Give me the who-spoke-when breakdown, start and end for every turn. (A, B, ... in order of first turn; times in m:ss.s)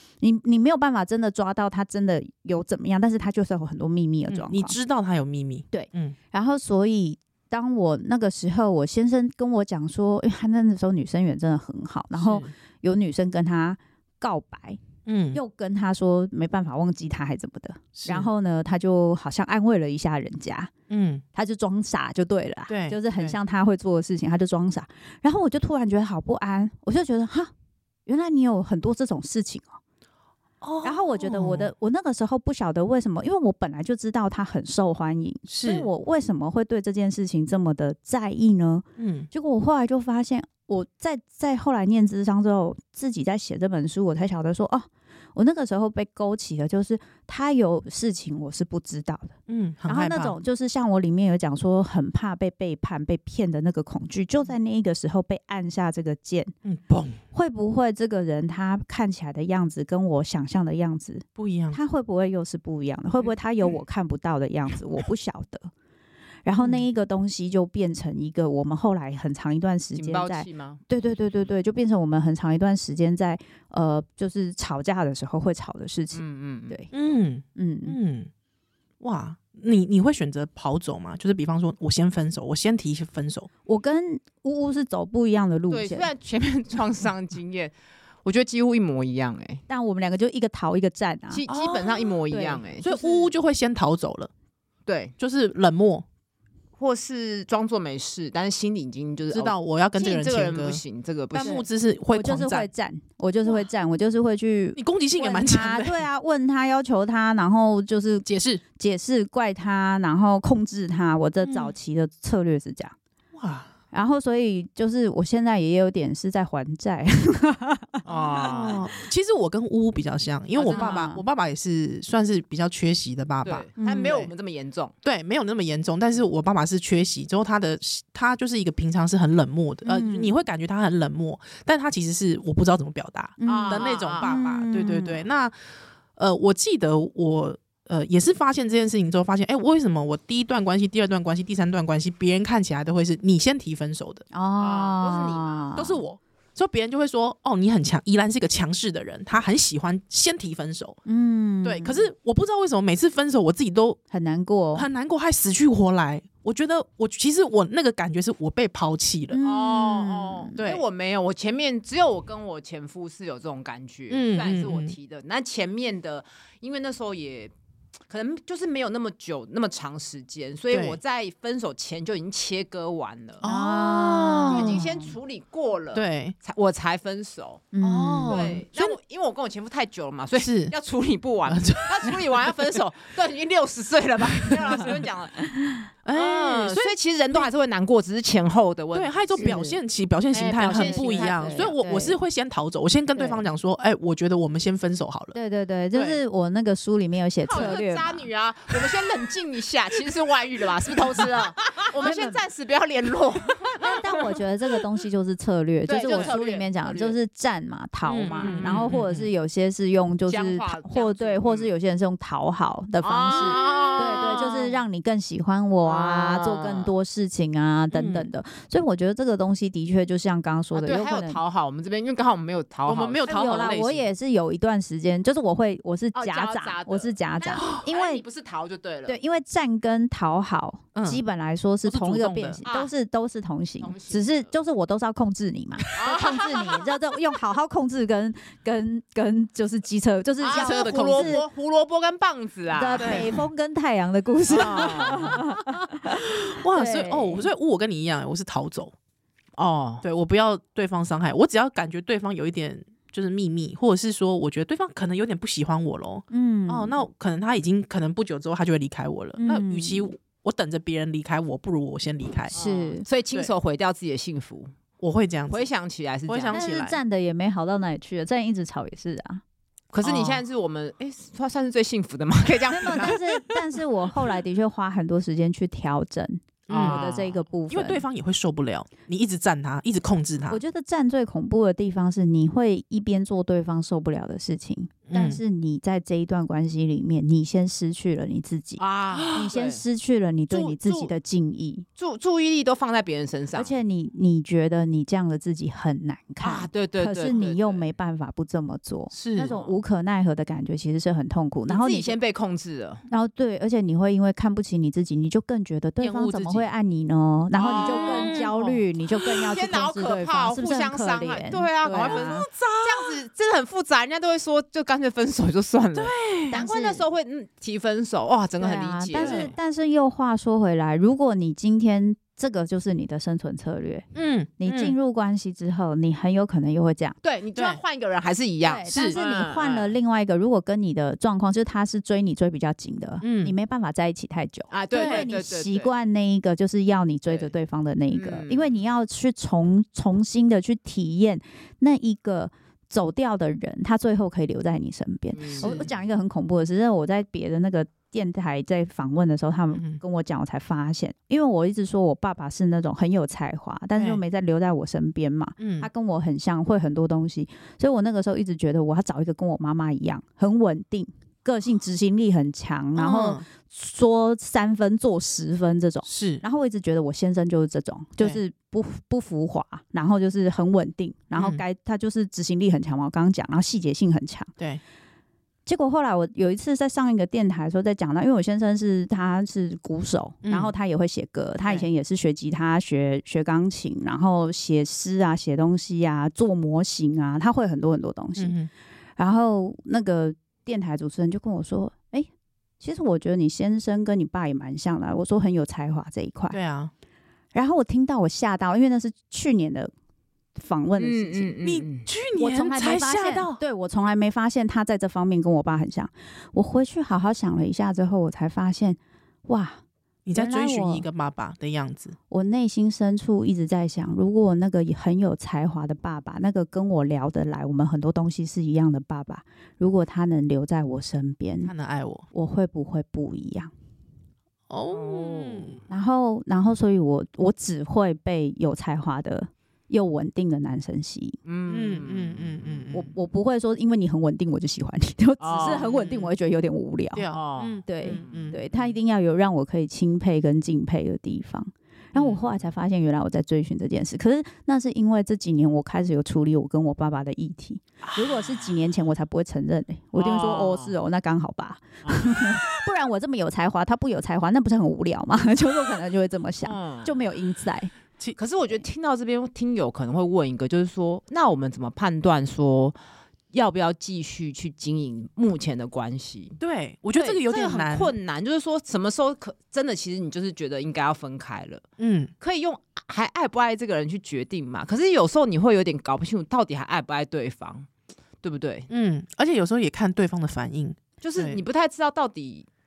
0:00.2-0:04.8 A
0:04.3-0:06.2 B
0:05.7-0:14.8 A
0:12.1-0:12.5 B
0:15.1-0:15.4 B
0:15.3-0:20.7 A
0:18.0-0:18.3 B
0:20.9-0:21.2 B
0:21.4-0:27.5 A
0:22.7-0:23.4 B
0:28.1-0:29.8 A
0:30.6-0:31.7 B
0:30.8-0:56.5 A
0:35.5-0:35.9 B
0:39.0-0:39.3 B
0:49.5-0:50.4 B
0:56.6-0:57.2 B
0:57.3-1:05.7 A
1:01.4-1:01.8 B
1:06.4-1:16.9 A
1:06.6-1:06.8 B
1:10.0-1:10.8 C
1:16.1-1:16.8 C
1:16.9-1:18.3 B
1:17.6-1:18.0 A
1:19.0-1:23.5 B
1:23.7-1:26.1 A
1:25.7-1:29.6 C
1:29.7-1:31.4 A
1:31.3-1:33.0 C
1:31.5-1:32.2 B
1:32.3-1:33.3 A
1:32.8-1:34.3 B
1:34.9-1:35.1 C
1:35.2-1:36.0 B
1:36.8-1:41.6 C
1:39.3-1:40.8 B
1:41.3-1:42.7 B
1:41.4-1:48.2 A
1:44.8-1:46.1 B
1:48.2-1:48.6 B
1:48.8-1:53.0 A
1:51.4-1:51.7 B
1:53.4-1:53.7 B
1:53.9-1:58.5 A
1:58.1-1:58.8 C
1:58.3-2:04.2 B
2:00.6-2:01.1 C
2:00.7-2:01.2 A
2:03.4-2:04.9 C
2:03.8-2:04.3 A
2:05.0-2:15.6 B
2:09.8-2:10.3 A
2:13.4-2:15.2 A
2:13.4-2:14.3 C
2:16.2-2:24.2 B
2:24.3-2:26.0 A
2:24.6-2:25.6 C
2:25.8-2:31.0 B
2:31.0-2:32.1 A
2:31.6-2:34.0 B
2:34.1-2:34.9 A
2:34.8-2:39.4 B
2:39.3-2:40.6 A
2:39.4-2:47.5 C
2:40.6-2:40.8 B
2:44.1-2:45.0 B
2:48.1-2:53.4 C
2:50.7-2:51.0 B
2:53.4-2:54.8 B
2:53.4-2:55.2 A
2:54.5-2:57.7 C
2:55.9-2:56.4 B
2:57.7-2:58.6 A
2:57.8-2:59.0 B
2:58.2-3:05.5 C
3:00.4-3:00.7 B
3:01.5-3:02.2 B
3:04.5-3:04.8 B
3:05.6-3:05.8 A
3:06.0-3:07.5 B
3:06.1-3:09.6 C
3:08.9-3:15.4 B
3:09.4-3:09.8 A
3:10.3-3:11.8 C
3:10.6-3:12.2 A
3:13.2-3:13.4 A
3:15.3-3:18.3 A
3:17.5-3:24.4 C
3:21.2-3:22.4 A
3:23.8-3:41.4 A
3:25.9-3:27.2 C
3:26.1-3:26.4 B
3:28.1-3:29.1 B
3:28.3-3:29.3 C
3:30.3-3:31.7 C
3:33.0-3:34.8 C
3:35.8-3:36.9 C
3:37.9-3:38.3 B
3:40.7-3:43.8 C
3:42.9-3:44.0 B
3:43.3-3:48.2 A
3:46.1-3:49.2 C
3:47.6-3:47.8 B
3:49.1-4:01.5 A
3:51.0-3:51.2 B
3:51.8-3:52.6 B
3:52.6-3:52.9 C
3:53.8-3:54.5 C
3:55.9-3:56.9 C
4:00.4-4:03.4 C
4:00.5-4:01.4 B
4:02.7-4:07.5 A
4:03.0-4:03.3 B
4:04.5-4:05.5 C
4:05.1-4:05.4 B
4:06.1-4:08.9 B
4:09.6-4:10.0 C
4:10.0-4:22.6 B
4:16.3-4:17.0 A
4:19.4-4:20.1 A
4:22.5-4:24.7 C
4:22.5-4:23.1 A
4:25.0-4:25.7 B
4:25.5-4:26.6 C
4:26.3-4:27.0 B
4:26.5-4:29.4 A
4:29.9-4:33.6 C
4:30.0-4:30.4 B
4:32.7-4:38.0 A
4:36.7-4:37.0 B
4:36.7-4:37.4 C
4:37.7-4:40.6 B
4:40.5-4:51.9 A
4:45.1-4:45.4 B
4:48.8-4:49.8 C
4:49.1-4:49.5 B
4:50.5-4:51.1 C
4:52.0-4:53.8 C
4:53.5-5:02.2 A
4:56.4-4:57.9 C
4:59.1-4:59.5 B
4:59.4-4:59.8 C
5:01.7-5:03.0 C
5:03.1-5:12.5 A
5:06.0-5:06.7 B
5:07.6-5:19.6 C
5:07.7-5:08.5 B
5:11.9-5:13.2 B
5:16.0-5:16.6 B
5:16.5-5:17.0 A
5:18.6-5:24.1 A
5:19.2-5:19.5 B
5:24.2-5:25.0 B
5:24.6-5:27.2 A
5:27.2-5:30.0 C
5:27.5-5:27.8 B
5:28.6-6:14.5 A
5:28.9-5:29.2 B
5:33.2-5:33.6 B
5:34.7-5:35.9 C
5:34.9-5:35.3 B
5:38.1-5:38.8 C
5:45.3-5:45.9 C
5:45.6-5:45.9 B
5:49.7-5:50.0 B
5:54.0-5:54.2 B
5:55.6-5:55.9 B
6:03.0-6:03.5 B
6:06.0-6:06.4 B
6:11.4-6:11.6 B
6:15.7-6:28.6 A
6:20.4-6:20.7 B
6:28.4-6:28.7 B
6:29.2-6:32.3 A
6:32.8-6:36.6 A
6:36.5-6:36.9 B
6:37.5-6:39.9 A
6:40.6-6:41.5 A
6:41.0-6:42.1 C
6:41.6-6:43.6 B
6:42.4-6:49.8 A
6:50.3-6:52.2 B
6:50.3-6:51.1 A
6:52.3-7:01.7 A
7:01.6-7:02.3 B
7:02.3-7:03.7 A
7:04.7-7:05.8 B
7:04.9-7:05.8 C
7:05.9-7:11.4 A
7:11.4-7:13.0 C
7:11.7-7:13.1 B
7:12.9-7:17.2 A
7:15.4-7:16.2 C
7:17.1-7:18.6 B
7:17.3-7:18.9 C
7:17.9-7:37.9 A
7:22.2-7:22.4 C
7:28.0-7:28.3 B
7:30.2-7:31.0 C
7:32.0-7:32.6 C
7:36.6-7:37.2 C
7:38.4-7:43.0 C
7:43.5-7:46.6 C
7:46.6-7:48.1 B
7:47.2-7:51.8 C
7:52.0-7:52.3 B
7:52.4-7:57.9 C
7:58.4-7:58.9 C
7:58.9-8:01.6 B
8:01.2-8:02.7 C